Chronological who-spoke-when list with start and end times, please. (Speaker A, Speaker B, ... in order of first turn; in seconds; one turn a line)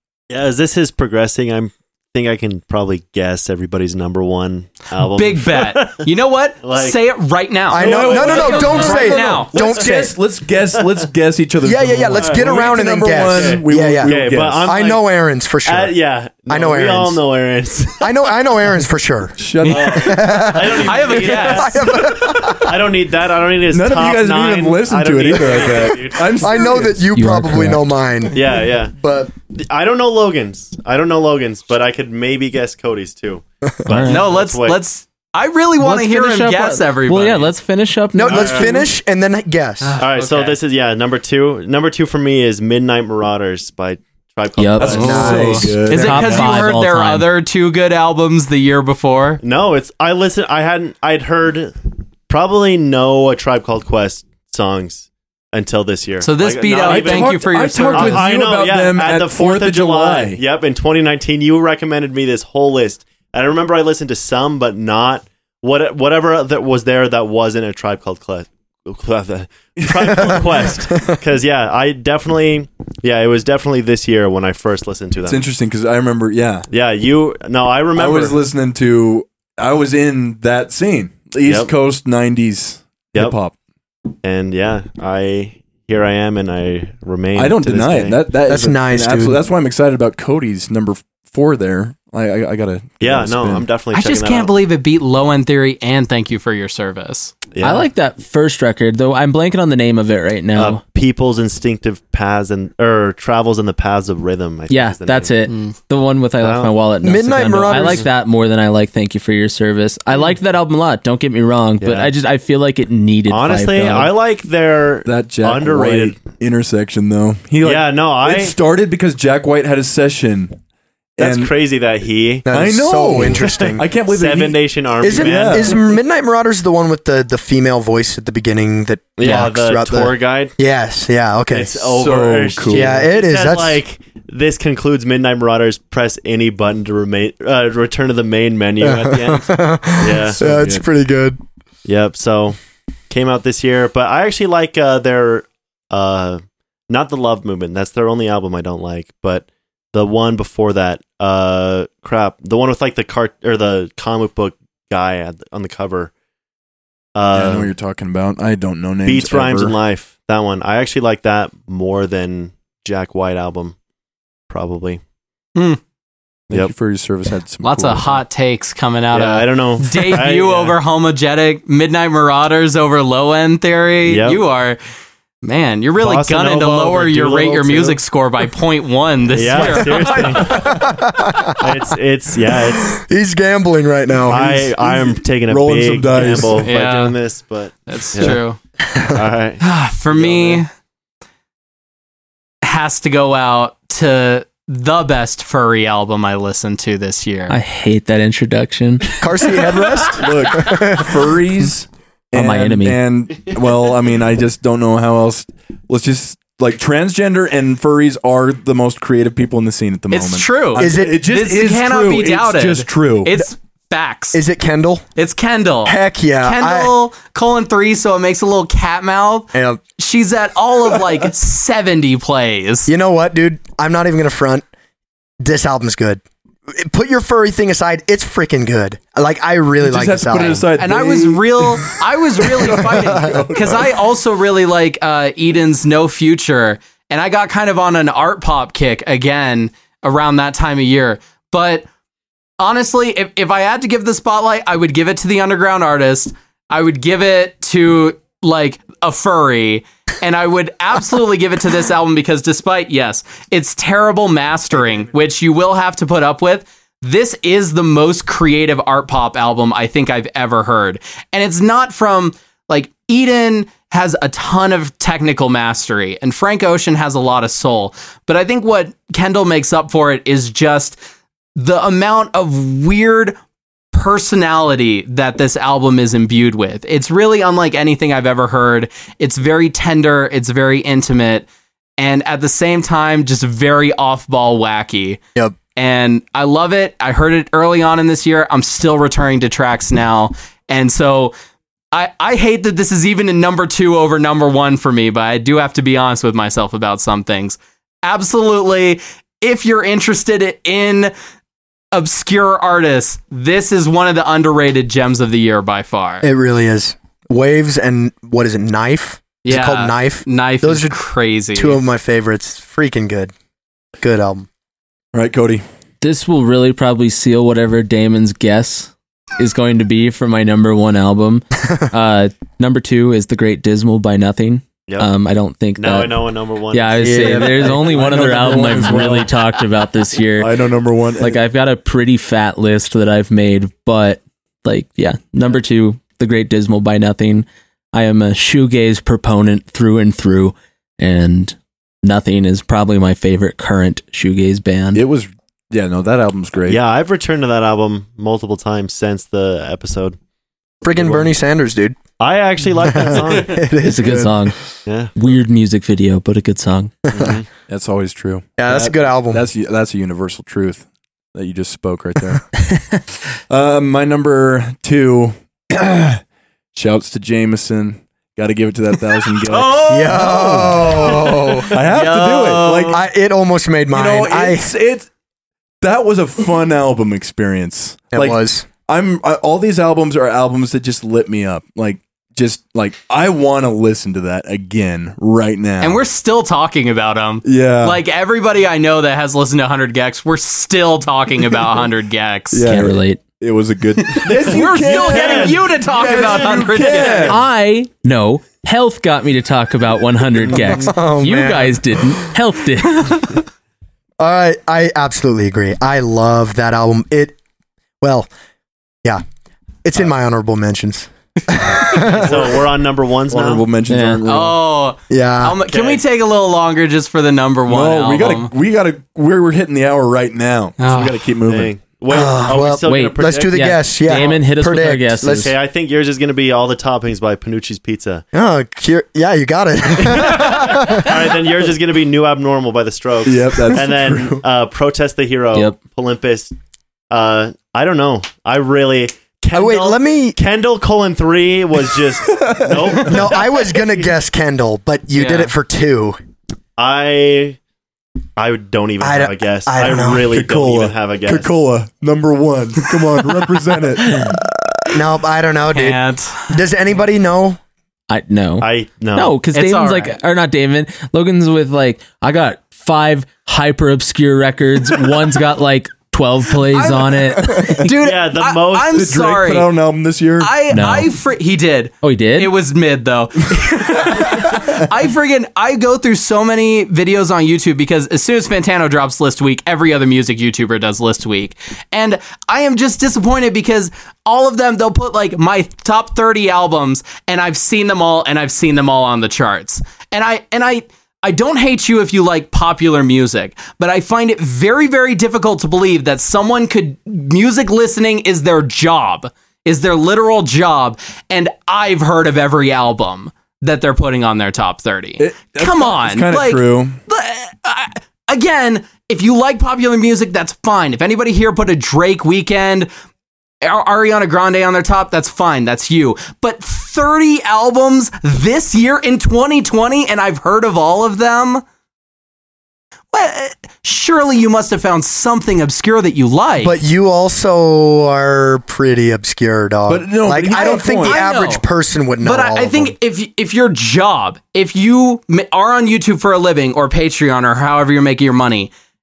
Speaker A: 0.3-6.1
Speaker B: 5.0-9.5
Speaker A: 6.6-7.0
Speaker C: 7.7-10.1
Speaker D: 7.8-14.7
Speaker A: 8.6-8.8
Speaker A: 10.8-11.1
Speaker C: 11.6-15.9
Speaker A: 12.2-15.0
Speaker A: 15.7-18.1
Speaker C: 16.5-17.2
Speaker C: 18.0-22.7
Speaker D: 19.4-20.1
Speaker B: 19.6-21.9
Speaker A: 19.6-26.6
Speaker D: 23.7-27.1
Speaker C: 26.4-29.3
Speaker E: 27.1-27.9
Speaker A: 28.3-29.0
Speaker A: 29.5-34.8
Speaker E: 33.9-34.2
Speaker B: 34.0-37.5
Speaker E: 35.8-38.8
Speaker C: 38.1-39.9
Speaker A: 38.3-38.8
Speaker B: 39.8-40.6
Speaker A: 40.0-45.5
Speaker E: 44.6-47.3
Speaker D: 44.8-46.6
Speaker B: 45.0-49.4
Speaker C: 45.0-45.9
Speaker A: 49.4-75.4
Speaker B: 56.2-58.2
Speaker D: 56.8-60.4
Speaker C: 70.9-71.2
Speaker D: 75.2-76.7
Speaker A: 76.7-78.3
Speaker D: 77.9-83.5
Speaker A: 81.4-81.7
Speaker A: 84.2-88.2
Speaker D: 87.3-93.7
Speaker C: 88.5-89.4
Speaker A: 93.0-94.5
Speaker B: 93.9-97.3
Speaker A: 97.5-97.9
Speaker E: 97.6-100.8
Speaker A: 100.5-105.3
Speaker E: 104.7-114.1
Speaker B: 105.5-105.7
Speaker A: 106.4-106.7
Speaker C: 107.0-108.0
Speaker A: 107.7-108.0
Speaker A: 111.8-112.1
Speaker A: 113.3-116.2
Speaker D: 115.0-120.6
Speaker A: 117.6-118.5
Speaker D: 121.2-121.5
Speaker A: 121.2-122.5
Speaker C: 122.5-123.8
Speaker D: 122.5-125.7
Speaker A: 123.4-125.9
Speaker C: 125.0-131.8
Speaker A: 129.2-130.6
Speaker A: 131.5-140.4
Speaker D: 131.9-133.0
Speaker C: 132.7-133.8
Speaker C: 138.8-141.4
Speaker D: 140.2-140.8
Speaker A: 141.8-142.6
Speaker A: 143.1-156.1
Speaker A: 157.1-157.7
Speaker D: 157.3-159.8
Speaker A: 159.0-163.8
Speaker A: 164.5-165.0
Speaker D: 166.5-168.2
Speaker B: 167.6-174.8
Speaker A: 169.1-170.8
Speaker A: 174.1-174.4
Speaker B: 175.4-180.6
Speaker A: 176.0-178.0
Speaker A: 179.3-180.8
Speaker C: 180.3-181.7
Speaker A: 181.6-183.0
Speaker C: 182.8-184.7
Speaker A: 184.3-188.4
Speaker D: 184.8-186.7
Speaker B: 186.6-187.1
Speaker B: 187.9-188.6
Speaker A: 189.1-190.6
Speaker B: 189.6-190.7
Speaker B: 192.6-197.6
Speaker E: 197.5-199.2
Speaker C: 199.2-201.3
Speaker D: 200.2-213.4
Speaker E: 202.3-203.0
Speaker B: 210.1-214.4
Speaker C: 210.8-211.2
Speaker C: 214.3-215.0
Speaker B: 215.2-222.9
Speaker C: 215.8-216.9
Speaker C: 219.5-219.8
Speaker C: 222.9-224.6
Speaker C: 225.4-230.7
Speaker D: 229.8-233.9
Speaker B: 230.8-241.8
Speaker C: 232.8-233.4
Speaker B: 242.6-271.0
Speaker B: 271.6-273.4
Speaker B: 273.9-281.5
Speaker B: 282.0-285.2
Speaker B: 285.8-291.3
Speaker B: 291.9-301.1
Speaker B: 301.9-306.2
Speaker C: 306.2-310.9
Speaker B: 309.4-311.8
Speaker C: 311.5-313.3
Speaker C: 314.0-314.5
Speaker D: 315.1-315.6
Speaker E: 316.0-326.2
Speaker A: 325.8-327.8
Speaker E: 326.7-330.5
Speaker C: 327.0-328.0
Speaker D: 327.8-329.3
Speaker D: 330.4-331.4
Speaker E: 331.2-345.0
Speaker D: 344.9-346.8
Speaker A: 346.7-350.2
Speaker C: 350.8-351.9
Speaker A: 352.2-353.7
Speaker C: 352.9-354.4
Speaker E: 353.8-354.6
Speaker A: 354.9-355.1
Speaker E: 355.1-356.9
Speaker C: 357.1-357.3
Speaker A: 357.1-357.5
Speaker D: 357.7-362.4
Speaker C: 358.6-359.4
Speaker D: 363.5-366.2
Speaker D: 366.7-370.9
Speaker B: 369.4-373.0
Speaker C: 369.9-371.7
Speaker D: 371.7-373.0
Speaker C: 372.9-374.7
Speaker D: 373.9-375.1
Speaker D: 375.8-386.0
Speaker C: 378.1-378.6
Speaker B: 385.8-392.8
Speaker D: 387.4-388.0
Speaker D: 392.5-397.4
Speaker E: 392.6-393.2
Speaker B: 394.2-397.4
Speaker A: 394.4-395.6
Speaker E: 397.2-403.4
Speaker C: 400.5-402.3
Speaker C: 404.2-407.4
Speaker C: 408.0-408.3
Speaker C: 409.8-412.6
Speaker A: 412.2-413.6
Speaker D: 413.3-414.6
Speaker E: 413.9-414.2
Speaker B: 414.2-418.5
Speaker C: 415.1-415.6
Speaker A: 415.7-416.0
Speaker D: 417.7-421.7
Speaker B: 420.8-421.3
Speaker A: 421.4-423.7
Speaker C: 422.1-425.5
Speaker E: 422.8-425.5
Speaker A: 425.3-428.2
Speaker C: 428.3-431.1
Speaker A: 430.2-436.5
Speaker D: 433.2-434.4
Speaker A: 437.1-443.4
Speaker C: 439.5-440.4
Speaker D: 442.2-443.2
Speaker C: 443.0-446.2
Speaker B: 445.1-445.5
Speaker A: 446.8-447.6
Speaker A: 448.4-451.5
Speaker C: 449.0-450.2
Speaker D: 450.2-454.4
Speaker C: 454.9-457.6
Speaker B: 455.7-456.6
Speaker E: 458.1-467.9
Speaker A: 458.6-459.4
Speaker B: 459.5-460.2
Speaker B: 466.7-469.7
Speaker A: 467.9-469.0
Speaker D: 468.9-470.5
Speaker B: 470.4-512.9
Speaker E: 470.7-471.1
Speaker E: 472.0-472.5
Speaker D: 474.1-474.6
Speaker D: 505.2-507.0
Speaker B: 513.6-521.6
Speaker B: 523.1-526.8
Speaker C: 526.6-532.9
Speaker D: 529.9-531.2
Speaker B: 530.6-531.6
Speaker B: 532.2-538.7